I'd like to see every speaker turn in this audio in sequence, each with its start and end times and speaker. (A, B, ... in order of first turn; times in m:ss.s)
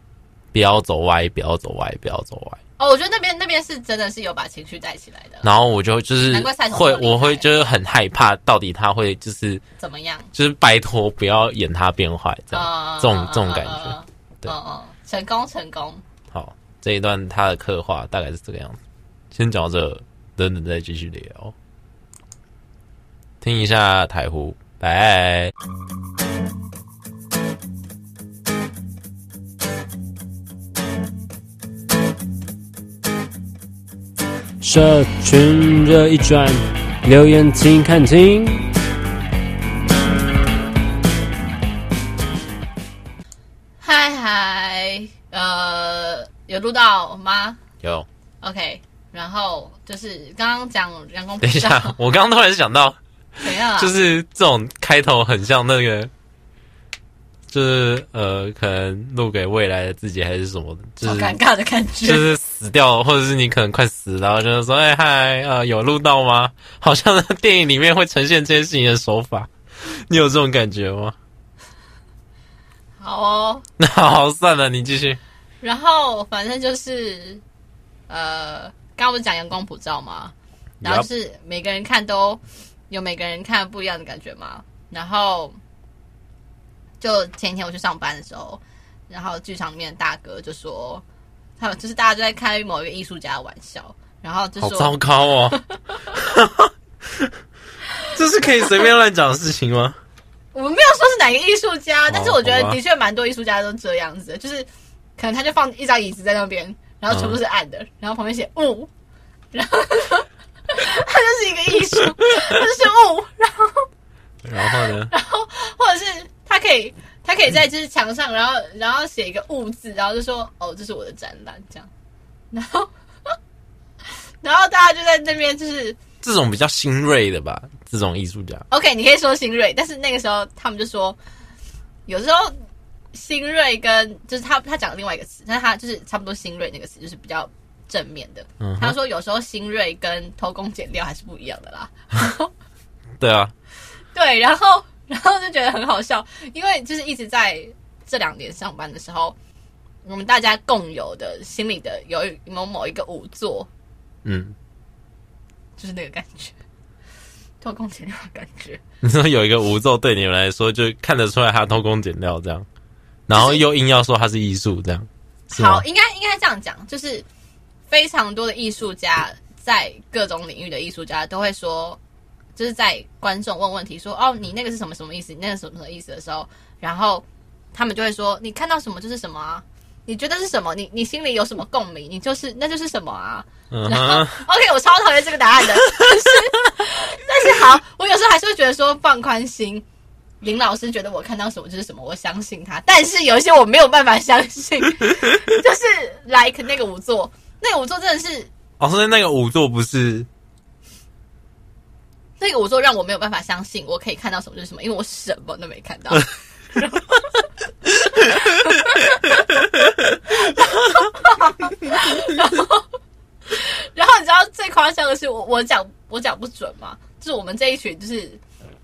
0:00.5-0:02.6 A
0:02.8-0:05.5 B
0:05.4-0:09.6 A
0:06.2-0:07.7 B
0:09.8-0:10.3 B
0:10.3-0:14.5 A
0:12.5-0:16.0 B
0:16.3-0:18.8 A
0:19.3-0:21.5 A
0:23.4-0:25.5 A
0:34.6-0:38.7 C
0:43.8-0:47.6 B
0:47.8-0:48.1 A
0:48.4-0:52.0 B
0:51.4-0:53.0 A
0:53.4-0:53.9 B
0:53.8-0:56.1 A
0:57.5-1:01.4 A
1:01.0-1:02.3 B
1:02.0-1:11.2 A
1:13.0-1:13.6 B
1:13.8-1:15.2 A
1:15.6-1:17.4 B
1:18.1-1:25.6 B
1:20.8-1:21.1 A
1:27.0-1:31.0 B
1:31.6-1:35.0 B
1:34.6-1:35.6 A
1:36.1-1:37.3 A
1:38.1-1:40.0 A
1:40.5-1:48.9 B
1:42.1-1:42.8 A
1:47.1-1:47.4 A
1:49.5-1:53.8 B
1:54.4-1:55.1 A
1:54.6-2:01.9 B
2:02.5-2:03.3 B
2:04.4-2:06.0 B
2:06.2-2:08.6 A
2:08.7-2:11.2 B
2:12.0-2:12.5 B
2:13.1-2:22.5 B
2:18.6-2:18.9 A
2:23.2-2:23.5 A
2:24.1-2:29.3 B
2:30.0-2:33.7 B
2:34.2-2:34.5 A
2:35.8-2:36.5 B
2:37.6-2:38.8 B
2:39.0-2:42.6 A
2:43.3-2:45.8 A
2:43.3-2:43.6 B
2:45.5-2:47.2 B
2:47.9-2:52.0 B
2:52.6-3:09.8 B
3:03.7-3:04.4 A
3:10.4-3:18.5 B
3:18.8-3:20.3 A
3:22.4-3:27.4 B
3:28.2-3:29.4 B
3:30.4-3:32.9 B
3:33.5-3:38.4 B